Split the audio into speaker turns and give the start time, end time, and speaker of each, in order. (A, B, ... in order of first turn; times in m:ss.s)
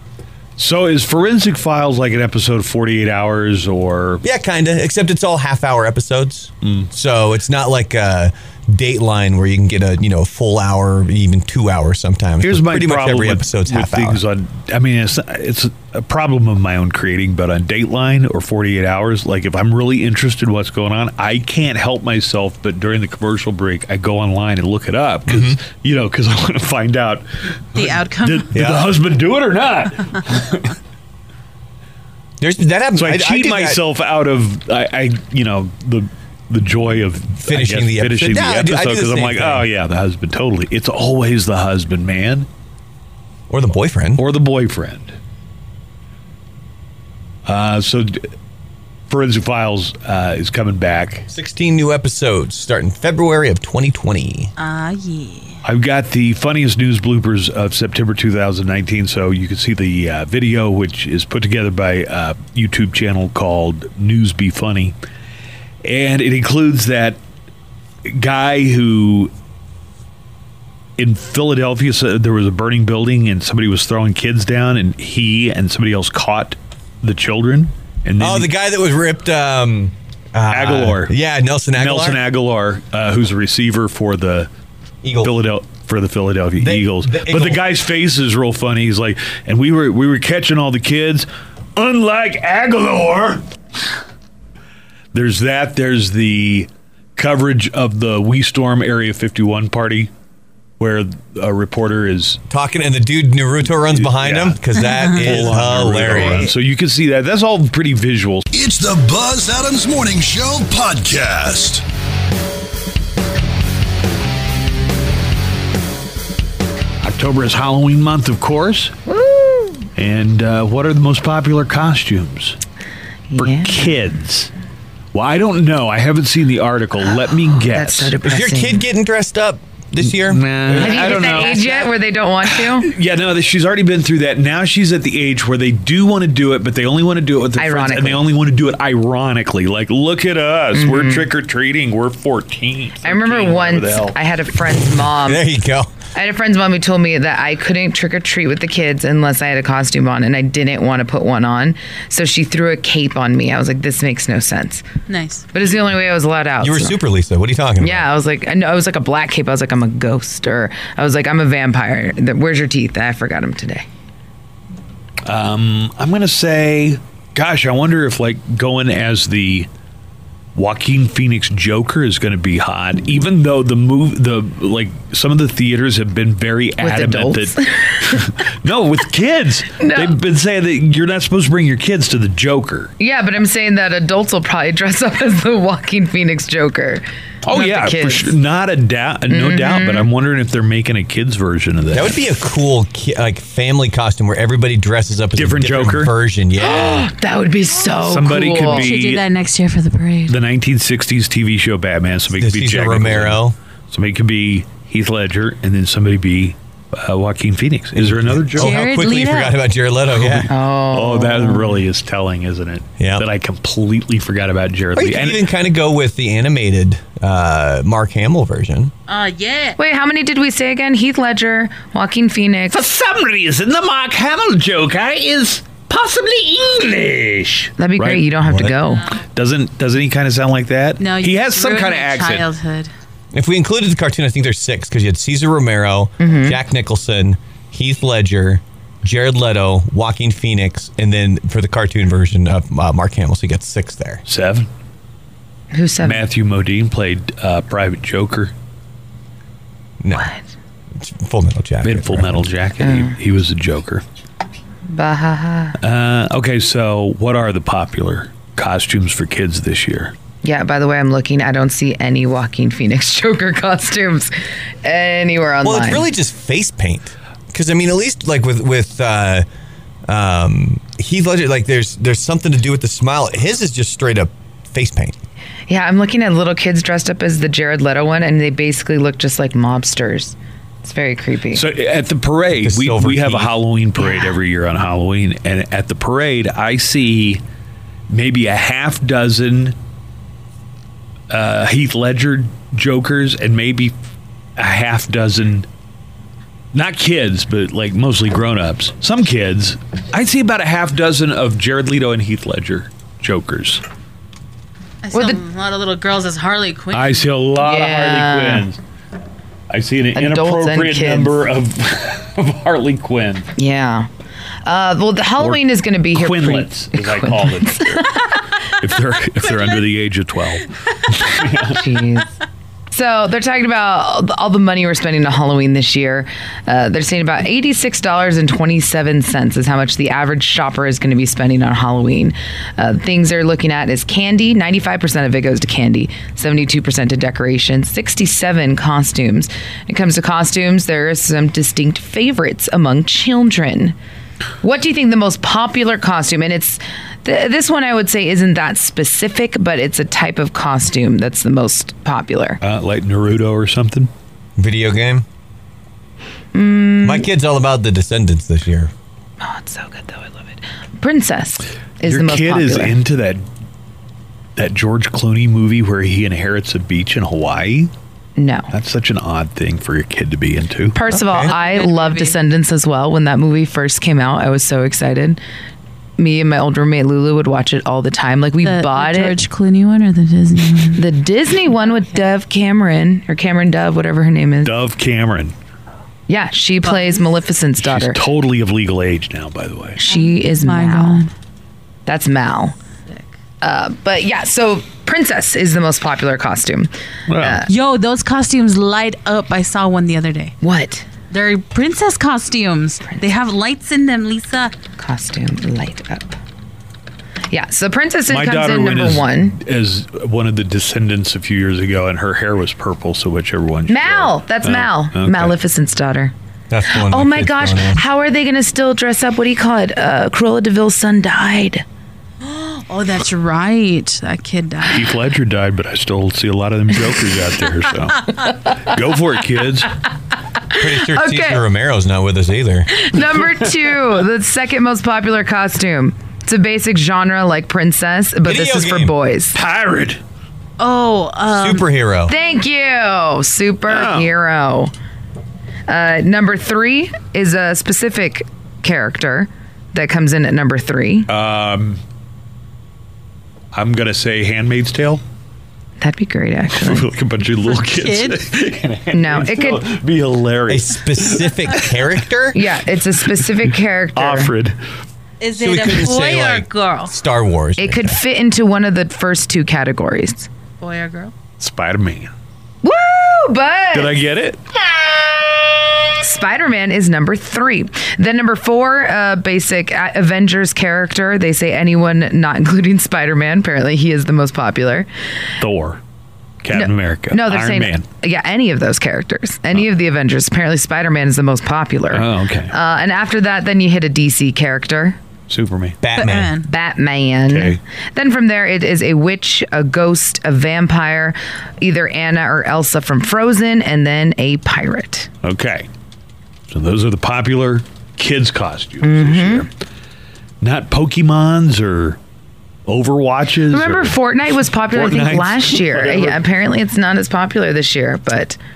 0:00.6-0:04.2 A
0:04.2-0:14.2 B
0:06.6-0:06.9 A
0:12.4-0:30.7 A
0:25.3-0:25.6 B
0:27.7-0:28.5 C
0:28.5-0:28.9 B
0:32.4-0:33.8 B
0:32.9-0:42.5 A
0:37.4-0:39.6 B
0:43.5-0:44.2 B
0:44.2-0:45.2 A
0:47.4-0:48.3 A
0:49.1-0:51.3 A
0:51.3-0:54.5 B
0:54.6-0:55.6 C
0:55.6-1:04.9 A
1:05.8-1:07.2 A
1:08.0-1:09.3 A
1:11.0-1:18.5 A
1:18.2-1:22.2 B
1:20.5-1:21.1 A
1:21.8-1:24.5 A
1:25.0-1:25.3 B
1:25.2-1:33.4 A
1:26.6-1:27.6 B
1:35.1-1:40.1 A
1:40.8-1:42.4 A
1:42.5-1:46.5 B
1:43.9-1:44.6 A
1:45.1-1:48.5 A
1:48.5-1:51.8 D
1:57.0-1:59.0 A
1:59.1-1:59.9 E
2:00.0-2:02.6 A
2:03.3-2:03.8 E
2:03.4-2:04.5 A
2:05.1-2:08.1 A
2:07.6-2:08.8 E
2:08.2-2:10.9 B
2:10.0-2:11.8 A
2:10.8-2:12.9 E
2:11.2-2:11.5 C
2:12.4-2:24.2 A
2:17.6-2:18.2 E
2:20.7-2:21.3 E
2:23.0-2:25.4 E
2:25.2-2:25.9 B
2:26.1-2:34.8 E
2:35.1-2:35.4 C
2:35.5-2:37.0 E
2:36.6-2:38.1 B
2:37.8-2:43.8 E
2:45.2-2:49.7 A
2:50.5-3:02.9 A
2:56.8-2:58.3 E
2:59.8-3:00.2 E
3:03.0-3:08.3 E
3:07.4-3:12.2 A
3:09.3-3:10.1 E
3:11.9-3:17.1 B
3:15.3-3:16.1 A
3:16.6-3:18.9 E
3:18.0-3:19.2 A
3:18.6-3:20.4 C
3:20.3-3:28.8 A
3:22.4-3:23.6 B
3:28.0-3:30.5 B
3:28.6-3:29.6 C
3:30.2-3:35.4 A
3:30.5-3:31.8 E
3:33.0-3:33.2 B
3:34.9-3:38.9 B
3:39.1-3:39.8 C
3:39.8-3:42.8 E
3:42.7-3:52.5 A
3:47.8-3:49.0 E
3:51.0-3:52.9 C
3:53.3-4:04.2 B
3:56.2-3:56.6 E
4:04.2-4:04.7 A
4:05.7-4:06.2 E
4:06.0-4:08.5 A
4:10.0-4:10.3 B
4:10.1-4:10.4 E
4:11.0-4:12.5 B
4:11.8-4:14.0 A
4:12.8-4:13.2 E
4:14.9-4:15.8 E
4:15.8-4:20.1 A
4:20.4-4:24.3 E
4:24.8-4:26.1 E
4:25.6-4:29.4 B
4:30.1-4:35.1 B
4:35.7-4:41.6 E
4:41.5-4:47.4 A
4:42.6-4:43.6 B
4:44.0-4:44.3 E
4:48.1-4:49.7 A
4:51.3-4:53.9 A
4:54.6-4:55.7 A
4:56.7-5:03.8 A
5:05.0-5:07.3 C
5:05.1-5:05.4 E
5:06.9-5:08.8 A
5:07.6-5:08.7 E
5:09.7-5:13.5 A
5:10.1-5:11.4 E
5:13.6-5:14.1 E
5:14.6-5:18.4 E
5:16.1-5:18.1 A
5:18.8-5:21.8 A
5:21.7-5:22.3 E
5:22.9-5:44.0 E
5:44.6-5:52.6 E
5:52.6-5:54.1 A
5:54.6-5:55.2 B
5:56.5-5:57.3 E
5:57.0-5:58.9 B
5:59.4-6:03.0 E
6:02.0-6:03.4 A
6:04.6-6:07.9 A
6:08.4-6:08.7 E
6:08.7-6:11.0 A
6:10.9-6:15.4 E
6:11.3-6:12.4 C
6:16.2-6:19.4 E
6:18.6-6:21.0 C
6:21.0-6:24.7 E
6:24.6-6:25.5 A
6:26.3-6:28.2 E
6:26.8-6:27.2 C
6:27.8-6:30.0 A
6:30.0-6:31.2 E
6:30.0-6:31.3 C
6:32.0-6:32.8 E
6:33.6-6:37.7 E
6:37.3-6:37.6 A
6:37.6-6:40.5 C
6:40.6-6:41.1 E
6:41.3-6:44.7 C
6:45.0-6:46.4 E
6:47.5-6:49.6 E
6:48.3-6:55.5 A
6:53.9-6:56.3 E
6:56.7-6:58.0 B
6:56.9-7:01.8 E
7:02.4-7:05.1 C
7:04.8-7:09.9 A
7:10.8-7:12.9 B
7:10.9-7:11.6 E
7:12.9-7:19.6 E
7:18.4-7:19.1 B
7:19.5-7:20.2 A
7:20.8-7:21.9 C
7:21.5-7:22.3 B
7:22.3-7:24.9 E
7:23.9-7:24.3 A
7:25.9-7:31.3 E
7:31.3-7:32.0 A
7:33.7-7:35.2 A
7:36.0-7:37.1 E
7:36.7-7:41.7 A
7:37.7-7:38.4 C
7:39.1-7:39.9 E
7:40.7-7:42.6 B
7:42.5-7:44.5 E
7:44.1-7:44.8 A
7:45.4-7:47.1 C
7:45.6-7:48.2 B
7:47.8-7:50.5 E
7:50.8-7:51.3 C
7:51.6-7:52.3 A
7:52.8-7:54.2 E
7:53.9-7:54.6 A
7:56.2-8:05.1 E
8:05.6-8:06.0 A
8:06.6-8:08.0 A
8:06.7-8:15.2 E
8:12.1-8:12.7 A
8:15.5-8:16.0 A
8:16.0-8:16.6 B
8:16.1-8:16.7 C
8:16.7-8:25.3 E
8:17.5-8:17.8 A
8:25.4-8:25.9 A
8:26.7-8:29.7 A
8:29.0-8:29.7 E
8:30.6-8:32.2 A
8:32.9-8:34.2 A
8:33.7-8:38.6 E
8:34.9-8:36.4 A